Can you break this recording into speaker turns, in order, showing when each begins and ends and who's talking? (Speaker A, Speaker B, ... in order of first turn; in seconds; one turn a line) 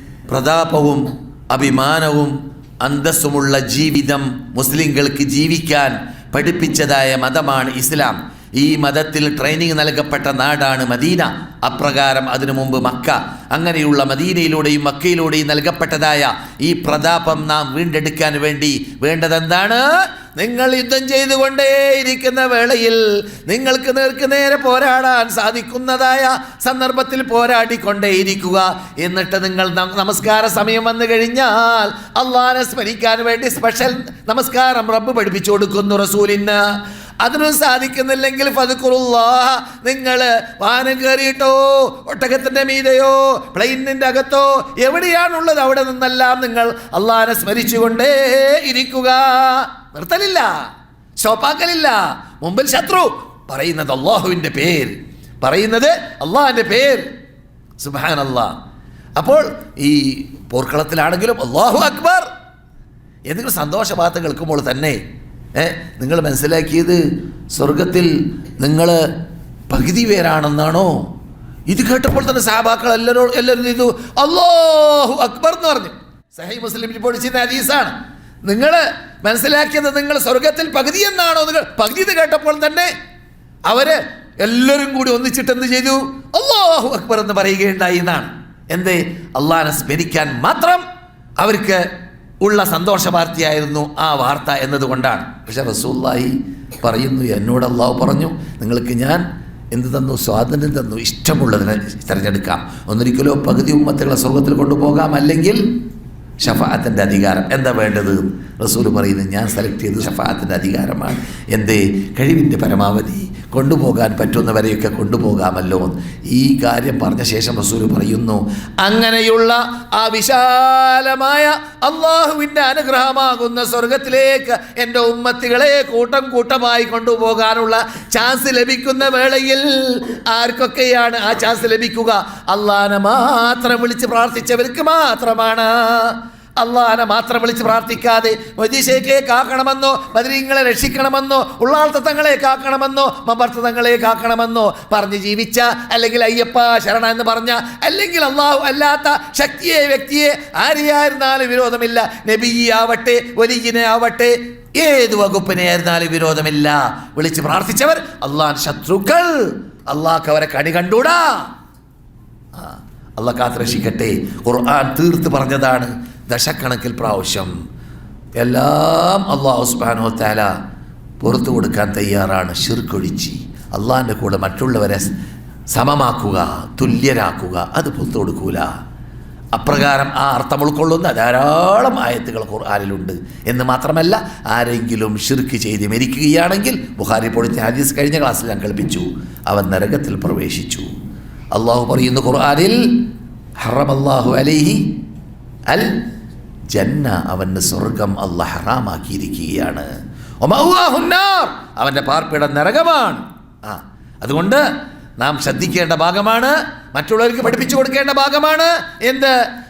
Speaker A: 0.3-19.8
Speaker A: 20.4-36.6
Speaker A: 37.2-50.5
Speaker A: 51.2-57.1
Speaker A: 57.8-58.5
Speaker A: 59.2-62.3
Speaker A: 63.3-65.0
Speaker A: 65.5-67.0
Speaker A: 67.5-69.0
Speaker A: 69.7-71.0
Speaker A: 71.7-77.9
Speaker A: 78.5-82.9
Speaker A: 83.7-90.8
Speaker A: 91.4-91.8
Speaker A: 92.4-105.6
Speaker A: 106.4-161.4
Speaker A: 162.6-167.5
Speaker A: 168.4-170.5
Speaker A: 171.2-175.1
Speaker A: 175.7-178.7
Speaker A: 179.6-190.9
Speaker A: 191.5-192.8
Speaker A: 193.6-194.8
Speaker A: 195.7-196.0
Speaker A: 196.7-199.9
Speaker A: 200.4-204.6
Speaker A: 205.2-209.3